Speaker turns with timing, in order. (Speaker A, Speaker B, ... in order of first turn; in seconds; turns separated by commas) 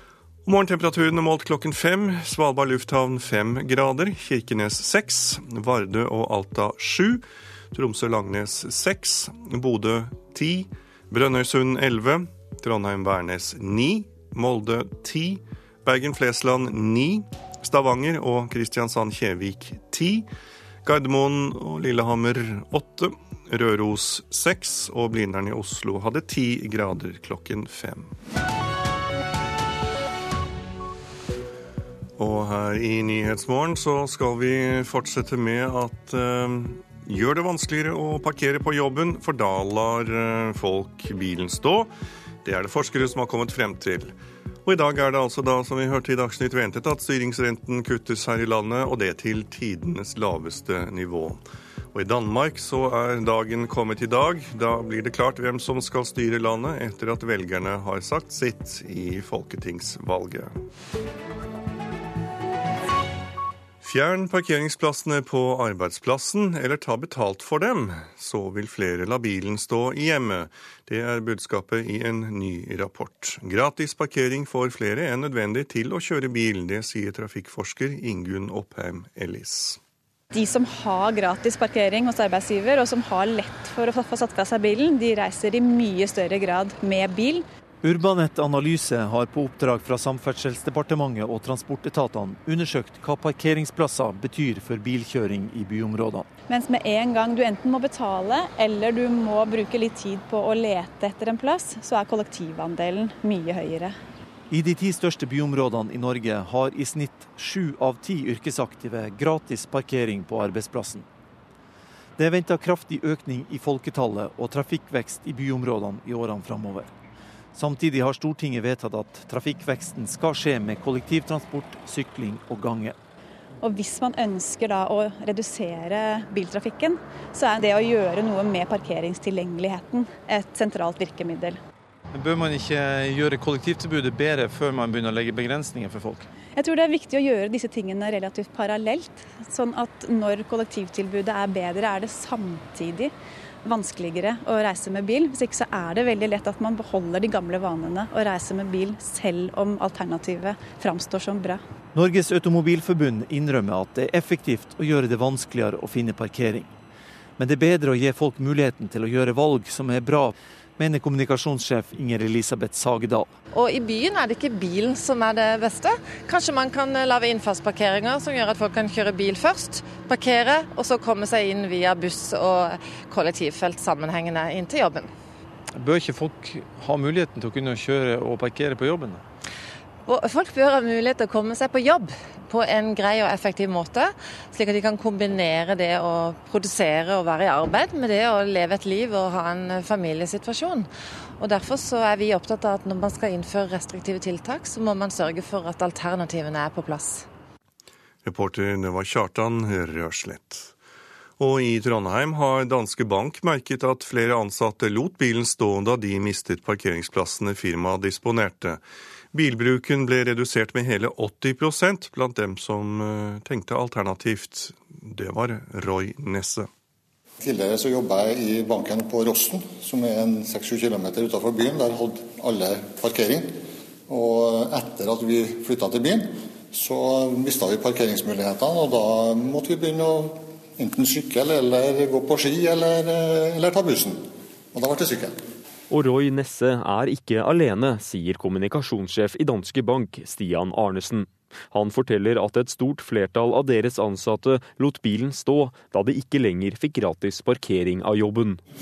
Speaker A: 0.5-20.3, Speaker A: 20.8-28.1, Speaker A: 32.2-41.9, Speaker A: 42.4-44.1, Speaker A: 44.7-51.4, Speaker A: 51.9-60.6, Speaker A: 63.8-79.8, Speaker B: 80.3-87.5, Speaker C: 87.8-96.3, Speaker B: 96.5-104.0, Speaker C: 104.5-111.1, Speaker C: 112.2-116.9, Speaker C: 117.5-123.0, Speaker B: 123.6-131.6, Speaker B: 136.6-151.6, Speaker C: 151.9-156.7, Speaker C: 157.4-163.4, Speaker D: 163.5-175.1, Speaker D: 180.1-197.3, Speaker A: 198.2-200.7, Speaker A: 201.4-208.8, Speaker A: 209.3-216.7, Speaker E: 217.4-235.5, Speaker F: 235.9-248.6